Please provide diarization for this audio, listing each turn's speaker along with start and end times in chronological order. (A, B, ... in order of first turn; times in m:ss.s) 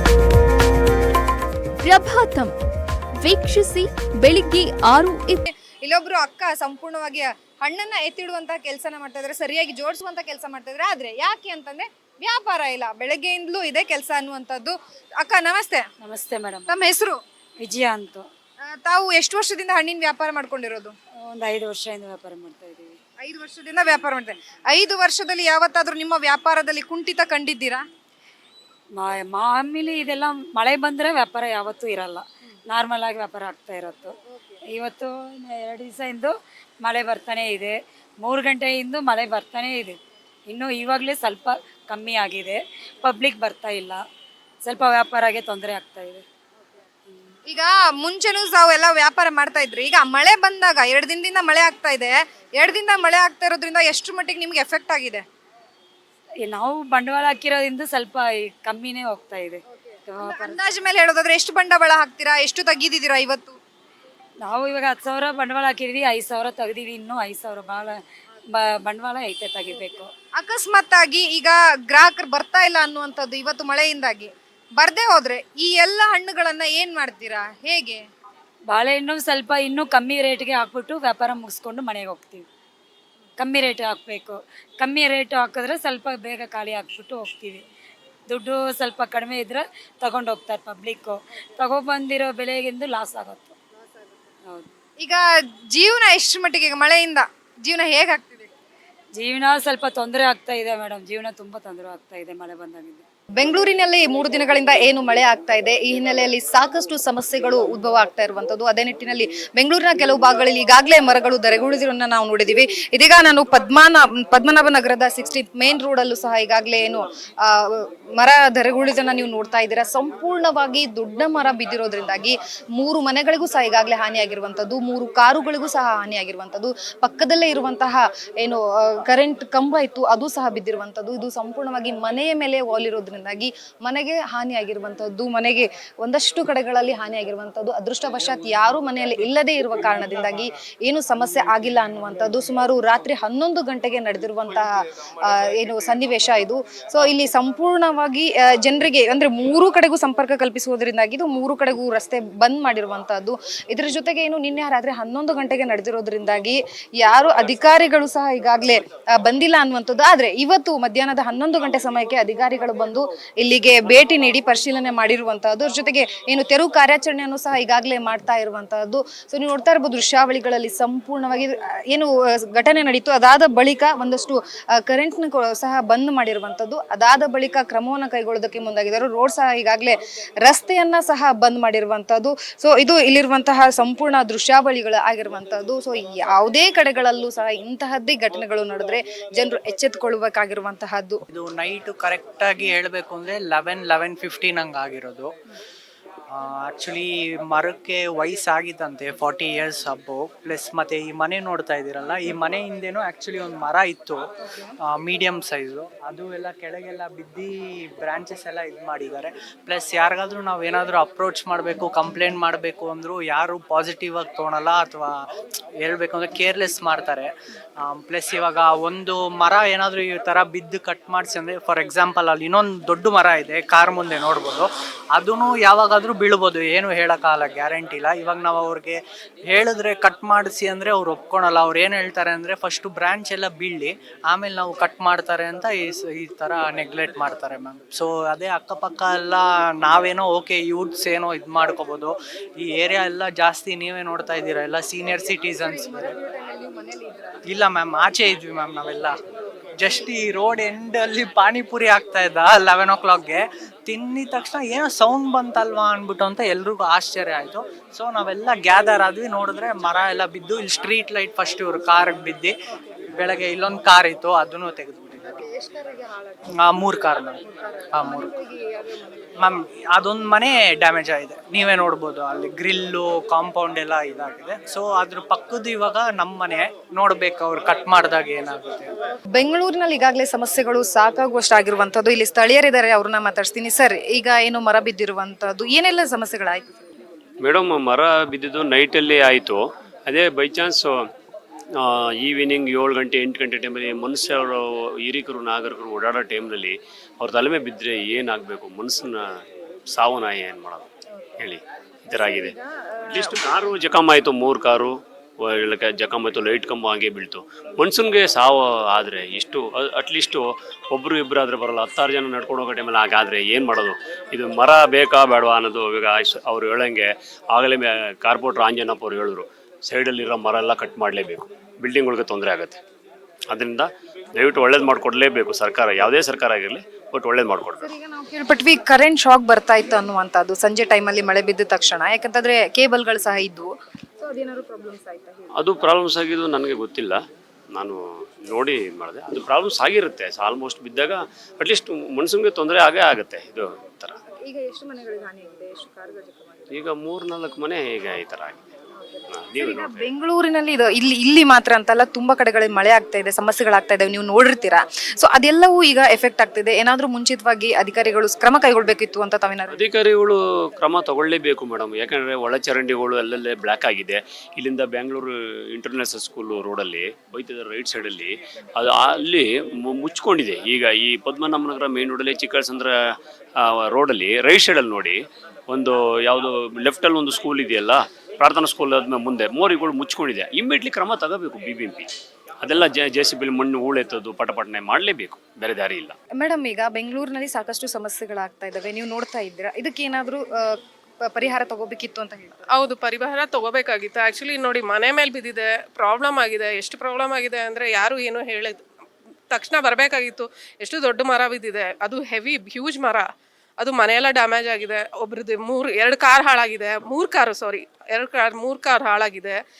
0:01.8-0:02.5 A
0:03.2-0:05.4 A
0:05.8-0:15.9 B
0:16.0-0:16.7 C
0:16.7-0:17.2 B
0:17.6-0:18.3 C
0:18.6-0:21.0 B
0:21.2-0:23.0 C
0:23.2-0:27.8 B
0:29.0-0:34.2 C
0:34.7-0:40.0 C
0:40.5-0:44.0 C
0:44.6-0:46.2 C
0:47.5-0:55.2 B
0:56.4-1:00.6 C
0:59.7-1:03.6 B
1:04.4-1:10.1 C
1:10.4-1:18.1 B
1:18.7-1:22.5 C
1:23.4-1:27.6 C
1:28.3-1:33.6 C
1:34.5-1:34.8 C
1:35.0-1:38.5 B
1:39.2-1:43.0 C
1:43.4-2:24.7 B
2:25.2-3:11.2 B
3:11.3-3:15.3 D
3:16.3-3:24.2 D
3:24.9-3:35.1 D
3:35.8-4:06.2 D
4:05.6-4:07.4 B
4:07.5-4:09.2 D
4:09.8-4:22.6 D
4:23.1-4:25.4 D
4:25.3-4:26.4 B
4:26.6-4:28.4 D
4:27.5-4:29.3 B
4:29.4-4:38.9 D
4:39.3-4:46.8 B
4:47.4-4:51.0 E
4:51.8-4:59.4 E
4:59.9-5:02.6 E
5:02.1-5:03.4 B
5:03.1-5:22.8 E
5:23.5-5:27.9 E
5:27.8-5:35.6 B
5:35.6-5:37.2 E
5:37.7-5:44.2 E
5:44.4-5:46.7 B
5:46.7-5:48.6 E
5:49.0-5:59.8 B
5:49.3-5:50.1 E
5:59.7-6:13.0 E
6:13.6-6:22.1 E
6:22.6-6:26.2 E
6:26.4-6:32.6 B
6:32.7-6:38.8 F
6:39.5-6:43.3 F
6:43.8-6:49.6 F